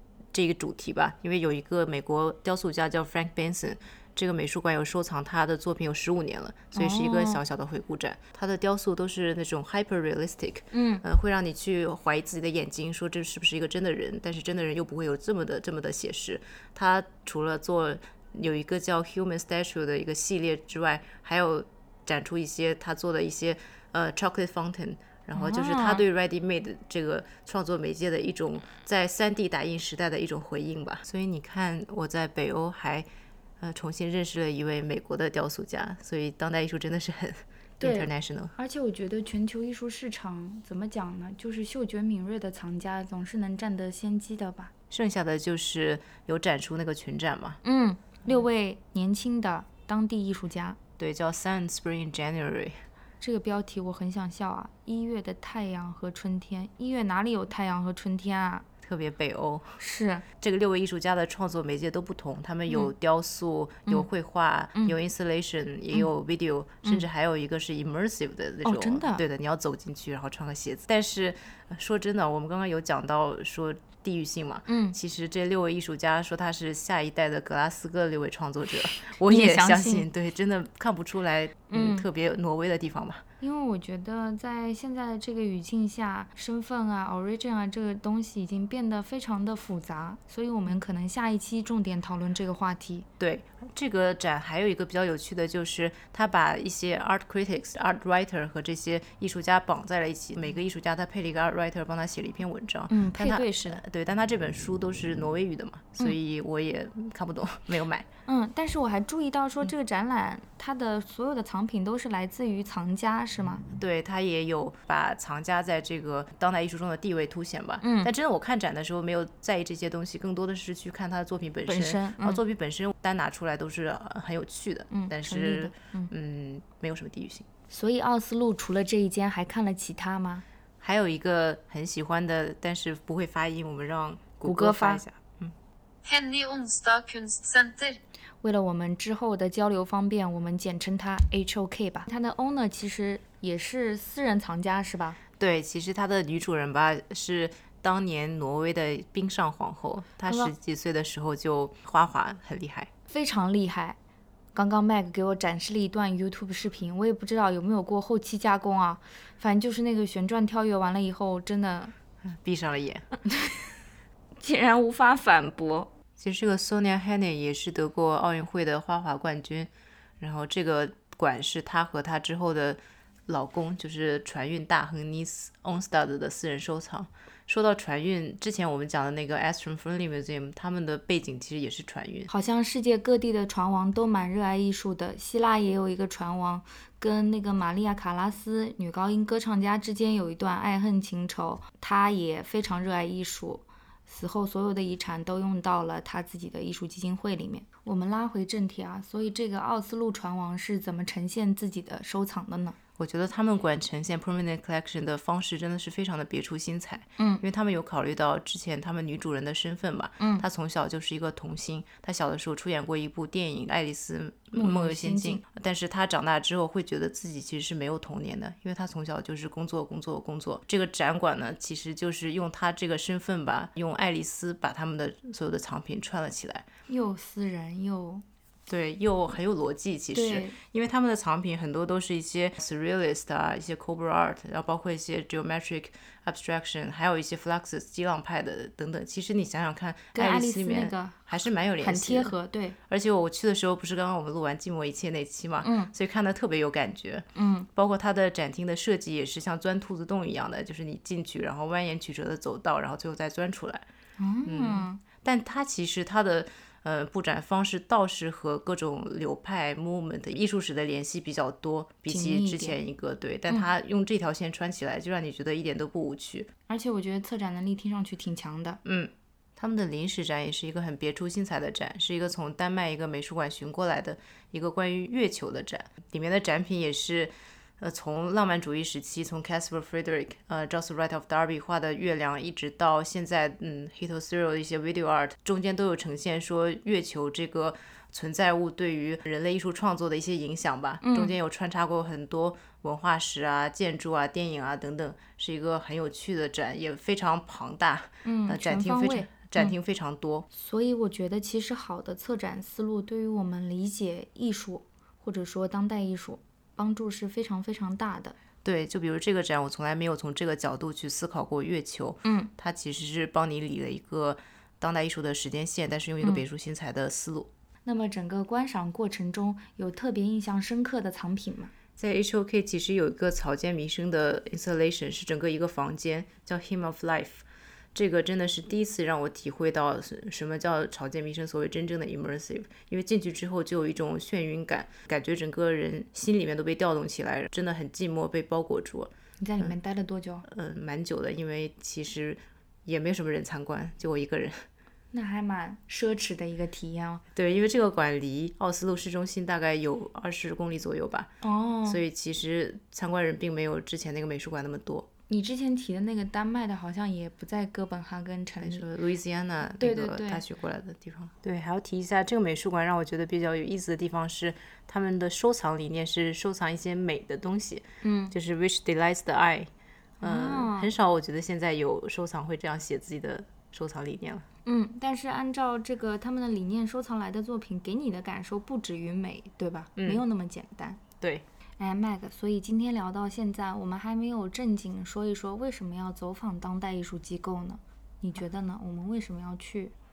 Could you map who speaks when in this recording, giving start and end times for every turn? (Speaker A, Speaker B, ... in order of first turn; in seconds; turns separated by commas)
Speaker A: 0.3-33.1, Speaker B: 6.7-7.4, Speaker B: 10.7-11.0, Speaker B: 25.4-26.0, Speaker A: 33.6-38.5, Speaker B: 37.8-44.7, Speaker A: 44.9-47.6, Speaker B: 47.6-50.8, Speaker A: 51.0-52.8, Speaker B: 53.2-58.6, Speaker A: 58.8-59.8, Speaker B: 59.8-60.2, Speaker A: 60.4-83.2, Speaker B: 68.6-69.2, Speaker B: 74.7-75.0, Speaker B: 78.9-80.1, Speaker B: 81.7-82.0, Speaker B: 83.4-93.1, Speaker A: 93.2-108.1, Speaker B: 102.9-103.8, Speaker B: 108.3-113.6, Speaker A: 113.8-127.5, Speaker B: 117.8-118.1, Speaker B: 121.7-122.4, Speaker B: 124.9-126.1, Speaker B: 127.7-130.4, Speaker A: 130.8-135.6, Speaker B: 134.4-135.0, Speaker C: 136.1-138.0, Speaker B: 138.4-145.2, Speaker A: 145.4-152.9, Speaker B: 150.3-150.5, Speaker B: 153.1-154.0, Speaker B: 154.5-161.9, Speaker A: 162.2-163.1, Speaker B: 164.4-165.9, Speaker A: 166.2-182.3, Speaker B: 182.3-202.8, Speaker A: 203.0-226.7, Speaker B: 207.2-207.4, Speaker B: 210.2-210.4, Speaker B: 214.6-215.4, Speaker B: 226.9-228.2, Speaker A: 228.7-242.3, Speaker B: 230.1-230.6, Speaker B: 240.1-241.2, Speaker B: 241.8-242.8, Speaker A: 242.9-253.9, Speaker B: 245.6-245.9, Speaker B: 247.3-247.7, Speaker B: 254.2-255.0, Speaker A: 254.4-266.5, Speaker B: 262.1-262.8, Speaker B: 266.7-268.8, Speaker A: 268.9-300.5, Speaker B: 291.0-291.3, Speaker B: 298.2-299.8, Speaker B: 300.5-308.4, Speaker A: 308.6-317.5, Speaker B: 312.2-312.5, Speaker B: 317.9-321.7, Speaker A: 322.0-339.8, Speaker B: 339.4-340.5, Speaker A: 340.5-344.7, Speaker B: 345.1-347.2, Speaker A: 347.4-351.3, Speaker B: 351.4-352.0, Speaker A: 351.9-355.1, Speaker B: 355.3-358.9, Speaker A: 358.6-369.7, Speaker B: 359.8-360.4, Speaker B: 368.0-368.3, Speaker B: 370.2-370.9, Speaker A: 370.2-374.5, Speaker B: 374.6-381.0, Speaker A: 380.0-380.2, Speaker B: 381.8-389.9